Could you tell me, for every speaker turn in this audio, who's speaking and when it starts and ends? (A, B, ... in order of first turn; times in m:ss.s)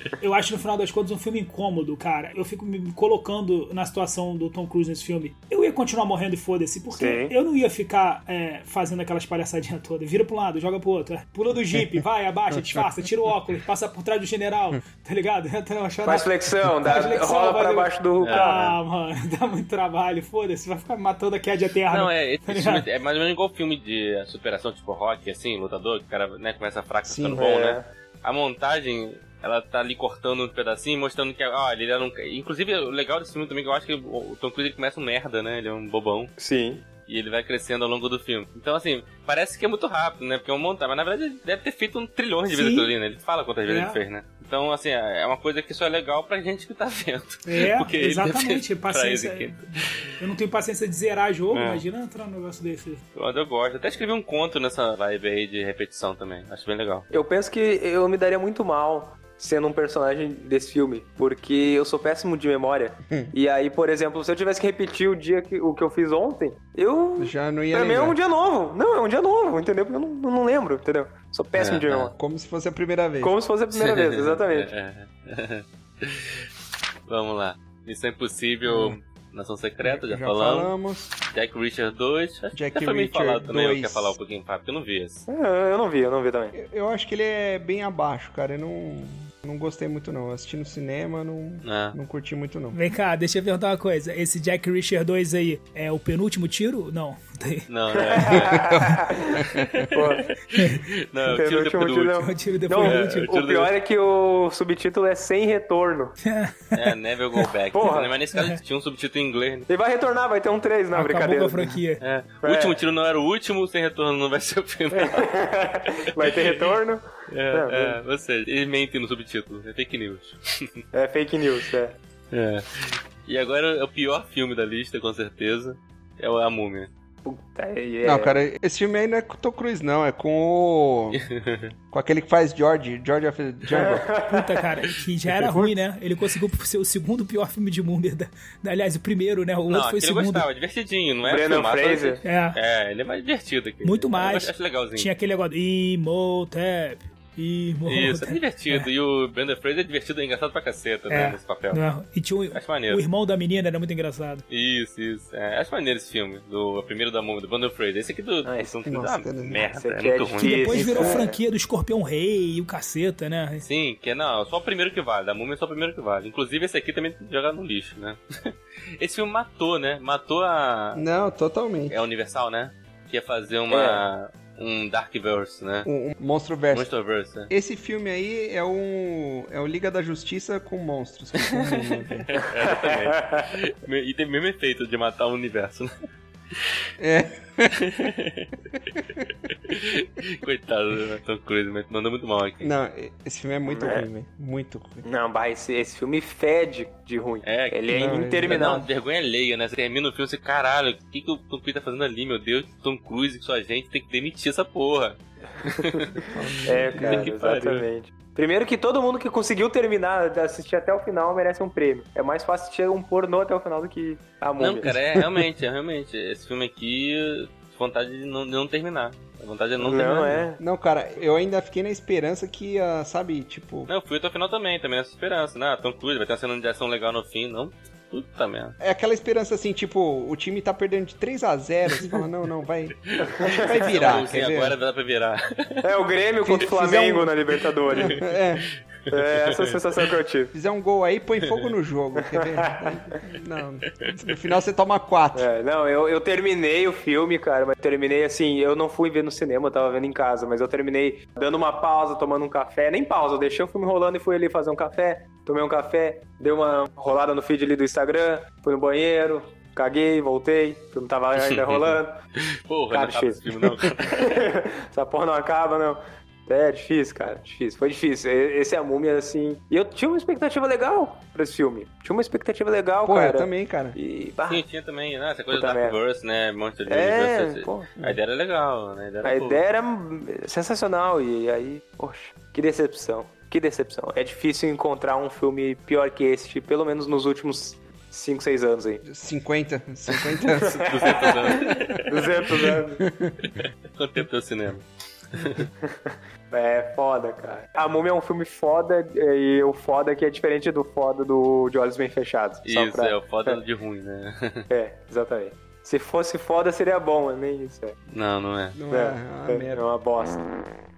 0:00.2-0:22.8 A
0:06.9-0:07.3 B
0:16.0-0:18.7 B
0:18.2-0:18.8 C
0:21.9-0:36.3 C
0:27.0-0:27.4 D
0:27.3-0:27.9 B
0:36.4-0:36.8 B
0:37.1-0:50.2 C
0:42.5-0:42.9 A
0:43.6-0:44.0 A
0:47.4-0:53.0 A
0:51.5-0:51.8 C
0:53.1-0:57.1 C
0:57.1-1:12.1 B
1:07.2-1:08.2 D
1:11.5-1:12.1 C
1:12.1-1:13.3 D
1:13.2-1:14.7 B
1:13.7-1:16.4 C
1:17.1-1:20.7 C
1:18.6-1:19.0 D
1:19.8-1:21.1 D
1:21.3-1:25.3 C
1:22.5-1:24.1 D
1:25.3-1:26.5 B
1:26.5-1:32.8 D
1:31.6-1:32.0 C
1:32.7-1:37.7 A
1:37.7-1:38.8 C
1:38.0-1:40.3 B
1:38.3-1:39.8 D
1:39.3-1:42.3 C
1:40.5-1:40.8 A
1:41.3-1:46.2 B
1:42.2-1:43.3 A
1:42.8-1:43.7 C
1:46.2-1:46.8 A
1:46.7-1:49.7 C
1:47.7-1:48.1 B
1:48.3-1:48.6 A
1:49.7-1:51.8 B
1:50.9-1:52.0 A
1:52.0-1:55.3 C
1:52.4-1:52.8 B
1:54.9-1:58.0 B
1:56.0-1:56.8 C
1:57.3-2:00.8 C
2:00.9-2:02.0 B
2:02.3-2:06.9 C
2:07.2-2:08.4 B
2:08.0-2:11.2 D
2:11.1-2:11.7 C
2:11.9-2:14.1 D
2:13.7-2:14.5 B
2:14.3-2:20.5 A
2:15.3-2:15.7 D
2:19.7-2:25.1 C
2:21.2-2:22.2 B
2:22.2-2:22.6 A
2:23.8-2:28.9 A
2:27.8-2:31.8 C
2:31.1-2:34.4 A
2:32.5-2:33.0 C
2:34.5-2:41.1 C
2:38.4-2:38.8 B
2:38.8-2:39.6 D
2:39.6-2:41.4 B
2:40.4-2:43.6 A
2:40.7-2:41.2 D
2:43.6-2:51.0 C
2:50.9-2:52.0 D
2:51.9-2:55.9 C
2:53.7-2:54.0 B
2:55.8-2:56.9 D
2:56.7-2:57.5 C
2:57.5-3:02.3 D
3:01.4-3:05.9 C
3:02.7-3:03.4 B
3:07.0-3:07.8 D
3:07.7-3:08.5 C
3:09.5-3:12.7 C
3:12.6-3:15.0 D
3:13.7-3:14.0 B
3:15.0-3:18.9 B
3:17.4-3:26.1 C
3:17.9-3:18.8 D
3:26.2-3:27.3 D
3:26.6-3:35.0 B
3:26.9-3:27.8 C
3:34.6-3:40.5 C
3:39.8-3:40.6 B
3:40.6-3:43.9 D
3:43.9-3:48.8 C
3:48.8-3:54.8 D
3:53.1-3:55.9 C
3:53.4-3:54.2 B
3:55.8-3:58.2 B
3:56.4-3:57.3 D
3:57.9-3:58.2 C
3:57.9-3:58.6 D
3:59.0-4:00.1 C
3:59.1-4:00.5 B
4:00.5-4:05.5 D
4:02.2-4:02.9 B
4:05.3-4:22.2 B
4:21.4-4:22.0 C
4:22.7-4:24.4 C
4:22.9-4:34.6 B
4:33.0-4:34.0 D
4:34.5-4:39.6 C
4:35.5-4:36.0 B
4:36.9-4:37.9 B
4:39.2-4:49.0 B
4:49.0-4:51.7 D
4:50.4-4:53.0 B
4:50.8-4:52.7 C
4:53.0-4:53.5 D
4:53.4-4:55.7 C
4:55.8-5:03.6 B
5:02.6-5:04.7 C
5:04.7-5:08.0 B
5:08.1-5:08.8 C
5:08.7-5:09.8 D
5:08.9-5:10.5 B